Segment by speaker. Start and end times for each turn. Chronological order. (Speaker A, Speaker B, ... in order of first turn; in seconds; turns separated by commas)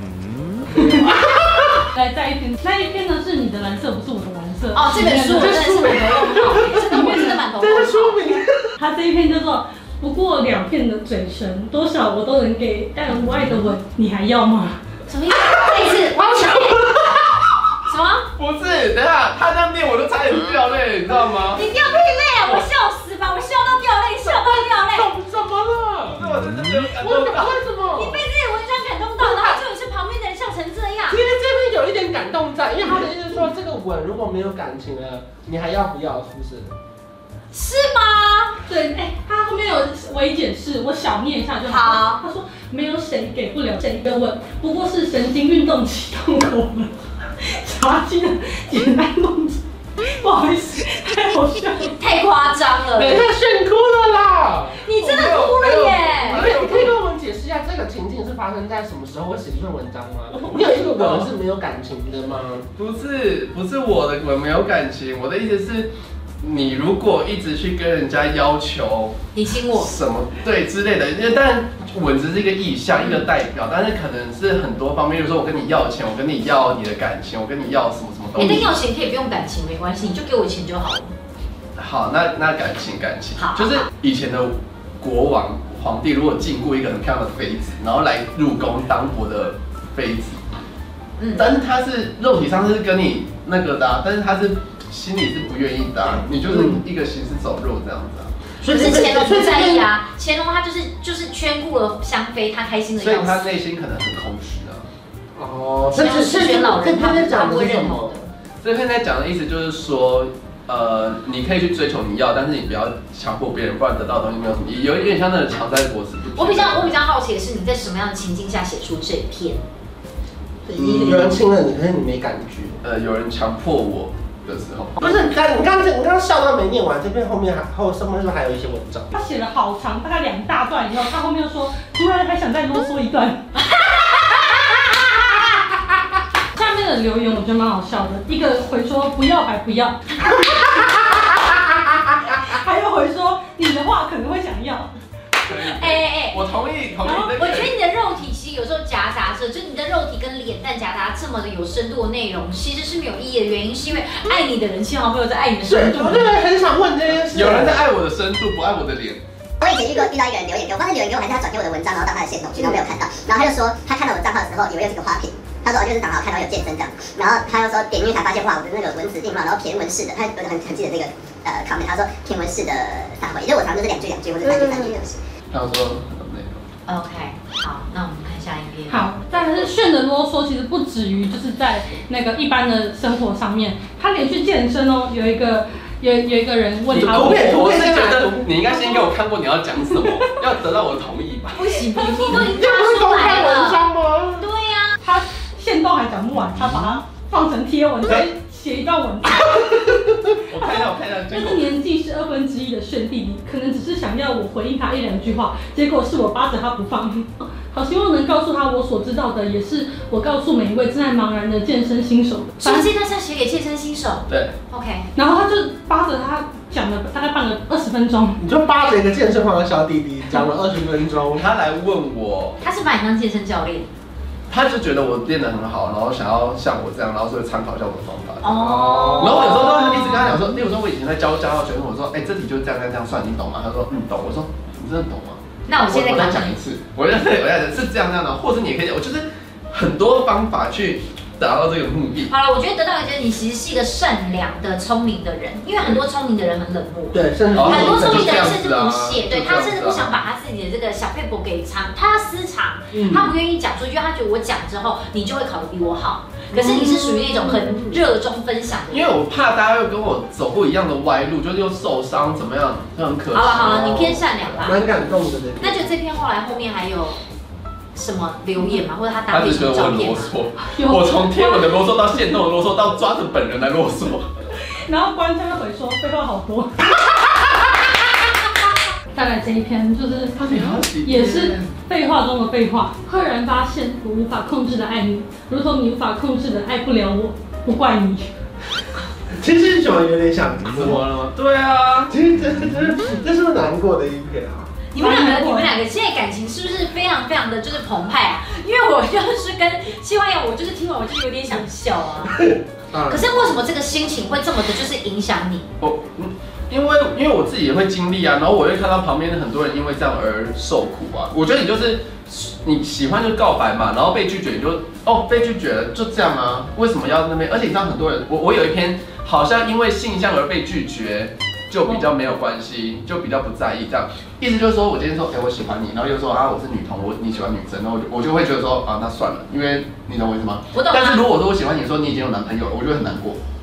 Speaker A: 0.7-1.9, Speaker B: 0.8-1.2, Speaker B: 1.8-7.4, Speaker C: 4.7-8.2, Speaker A: 5.0-8.7, Speaker B: 8.8-14.8, Speaker C: 15.1-16.9, Speaker A: 15.4-17.5, Speaker C: 17.9-18.3, Speaker D: 18.4-21.6, Speaker C: 21.4-25.1, Speaker A: 24.2-26.2, Speaker D: 26.2-27.6, Speaker A: 27.0-28.2, Speaker C: 27.9-31.2, Speaker A: 29.2-29.6, Speaker A: 31.1-36.7, Speaker C: 37.5-38.6, Speaker B: 38.7-52.0, Speaker C: 41.6-42.2, Speaker C: 51.8-53.2, Speaker A: 52.9-54.8, Speaker C: 54.8-56.6, Speaker D: 55.0-57.0, Speaker A: 56.3-62.7, Speaker D: 60.3-61.3, Speaker D: 62.8-69.2, Speaker C: 69.3-69.9, Speaker D: 69.7-78.7, Speaker C: 72.9-73.2, Speaker C: 78.3-81.1, Speaker D: 81.8-90.4, Speaker C: 83.3-83.9, Speaker C: 91.2-91.5, Speaker D: 91.3-98.3, Speaker A: 96.3-96.8, Speaker A: 98.6-99.9, Speaker C: 98.7-103.5, Speaker D: 103.0-104.9, Speaker A: 105.3-108.1, Speaker C: 105.9-108.3, Speaker D: 108.6-116.9, Speaker C: 116.3-119.6, Speaker A: 120.7-122.8, Speaker D: 120.8-121.4, Speaker D: 122.8-125.2, Speaker A: 125.0-129.1, Speaker B: 129.1-133.4, Speaker C: 133.6-135.2, Speaker B: 136.5-144.9, Speaker D: 145.4-147.7, Speaker C: 145.5-146.4, Speaker B: 147.0-147.3, Speaker C: 147.3-156.3, Speaker A: 155.6-157.9, Speaker D: 157.3-159.2, Speaker E: 159.6-175.2, Speaker A: 162.6-162.8, Speaker A: 174.4-175.0, Speaker D: 175.5-176.6, Speaker C: 176.9-179.1, Speaker B: 178.9-187.6, Speaker D: 186.9-191.8, Speaker A: 187.0-188.5, Speaker C: 191.5-195.0, Speaker A: 192.2-194.5, Speaker B: 195.0-200.0, Speaker D: 200.5-201.7, Speaker B: 200.6-212.9, Speaker C: 212.6-215.1, Speaker D: 214.3-214.5, Speaker B: 215.1-218.4, Speaker A: 218.4-221.4, Speaker D: 221.3-222.6, Speaker C: 222.6-223.9, Speaker D: 224.5-228.6, Speaker C: 228.4-230.2, Speaker A: 228.6-230.2, Speaker D: 229.2-242.3, Speaker C: 235.7-236.6, Speaker C: 242.3-259.1, Speaker A: 247.1-248.6, Speaker D: 247.5-250.2, Speaker D: 252.9-253.3, Speaker D: 256.5-258.0, Speaker D: 258.9-264.8, Speaker C: 263.3-264.9, Speaker A: 264.6-265.9, Speaker C: 265.6-267.2, Speaker C: 267.9-270.3, Speaker D: 269.3-274.3, Speaker B: 270.6-271.8, Speaker B: 274.6-276.7, Speaker B: 279.1-288.3, Speaker D: 280.4-281.7, Speaker A: 289.4-291.1, Speaker D: 290.7-292.1, Speaker A: 292.1-294.7, Speaker C: 294.9-302.3, Speaker B: 295.0-295.8, Speaker A: 302.2-303.6, Speaker C: 303.1-305.7, Speaker D: 305.8-333.4, Speaker C: 330.7-331.2